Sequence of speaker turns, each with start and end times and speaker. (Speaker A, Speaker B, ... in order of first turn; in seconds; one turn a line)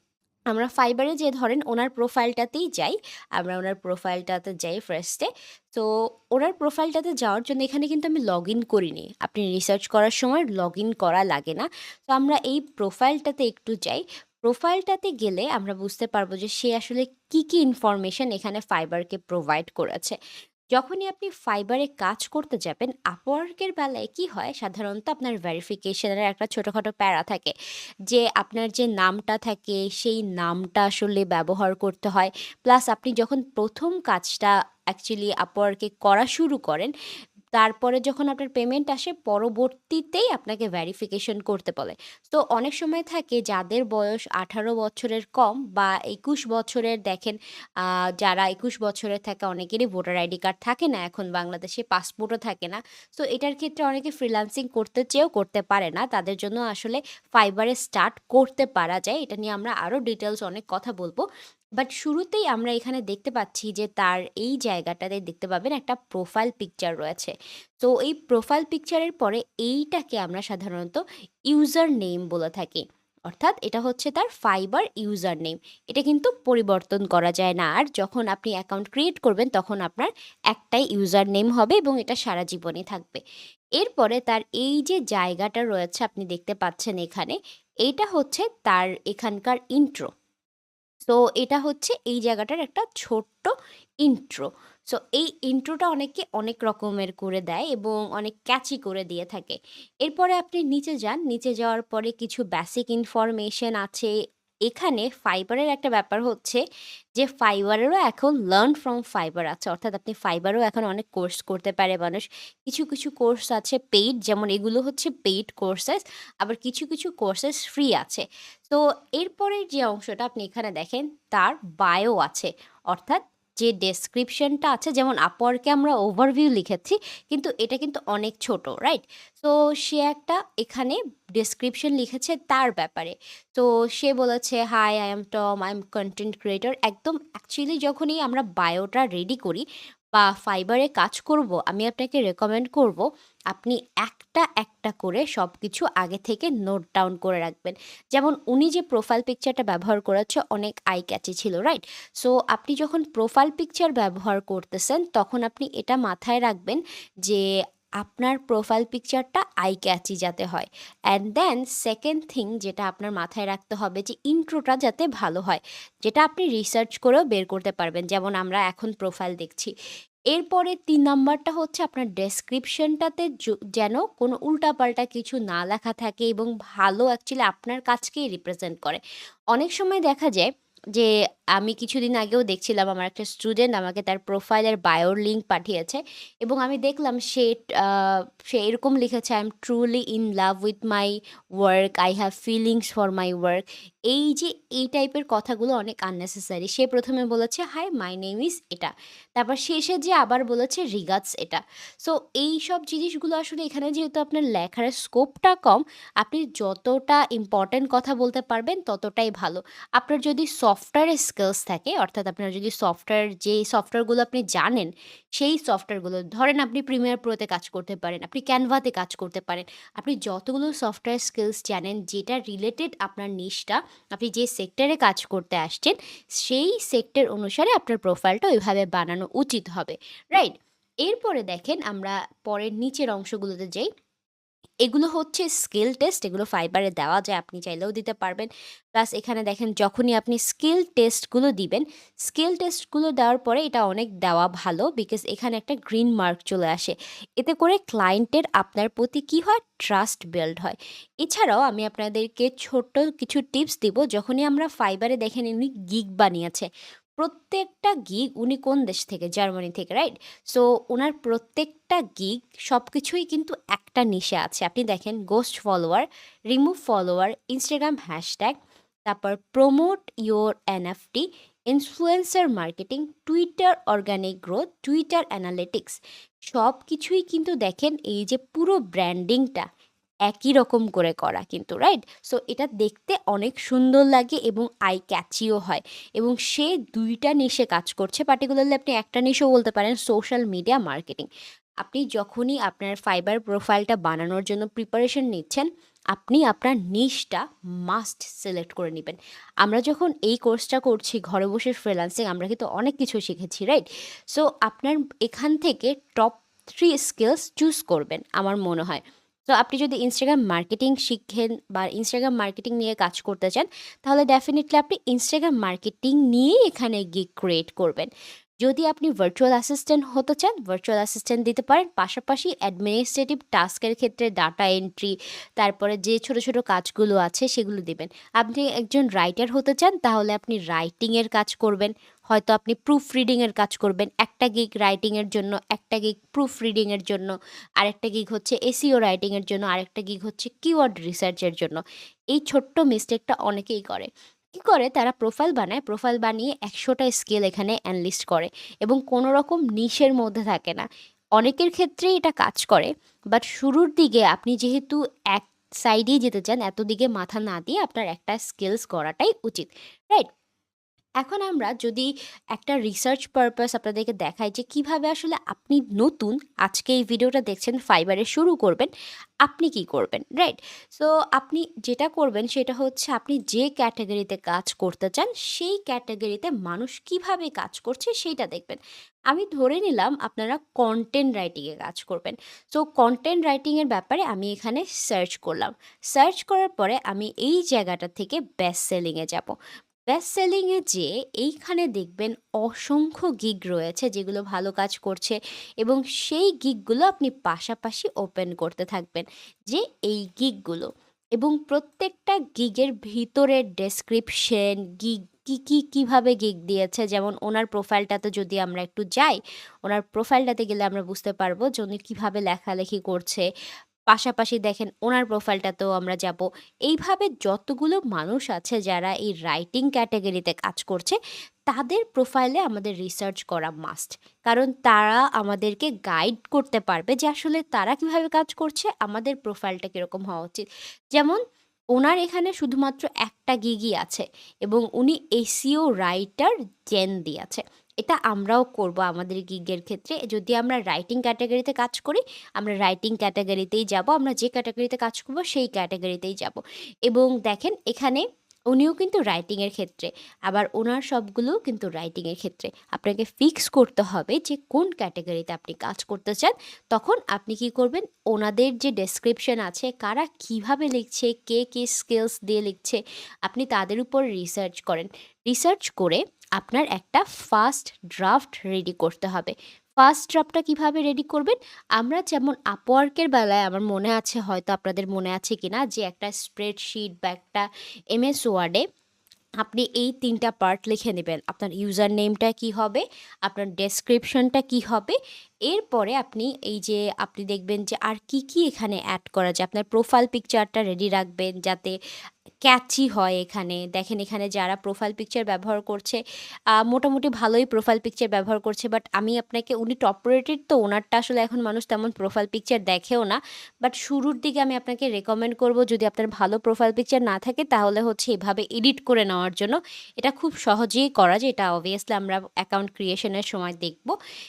Speaker A: 0.5-20.2
Speaker A: 20.7-27.5
Speaker A: 28.1-36.9
Speaker A: 37.6-61.2
Speaker A: 61.8-71.0
Speaker A: 71.5-83.2
Speaker A: 83.8-90.1
Speaker A: 91.1-104.1
Speaker A: 104.7-106.6
Speaker A: 107.2-139.6
Speaker A: 140.2-157.4
Speaker A: 158.0-169.7
Speaker A: 170.3-179.0
Speaker A: 179.5-230.5
Speaker A: 231.1-233.9
Speaker A: 234.8-268.6
Speaker A: 269.1-276.0
Speaker A: 276.5-279.7
Speaker A: 280.3-291.3
Speaker A: 291.8-318.1
Speaker A: 318.6-341.8
Speaker A: 342.3-350.9
Speaker A: 351.4-360.3
Speaker A: 361.2-368.9
Speaker A: 369.4-389.6
Speaker A: 390.1-413.4
Speaker A: 414.1-421.2
Speaker A: 421.7-431.4
Speaker A: 431.9-478.8
Speaker A: 479.6-485.2
Speaker A: 485.7-491.9
Speaker A: 492.7-496.2
Speaker A: 496.8-514.1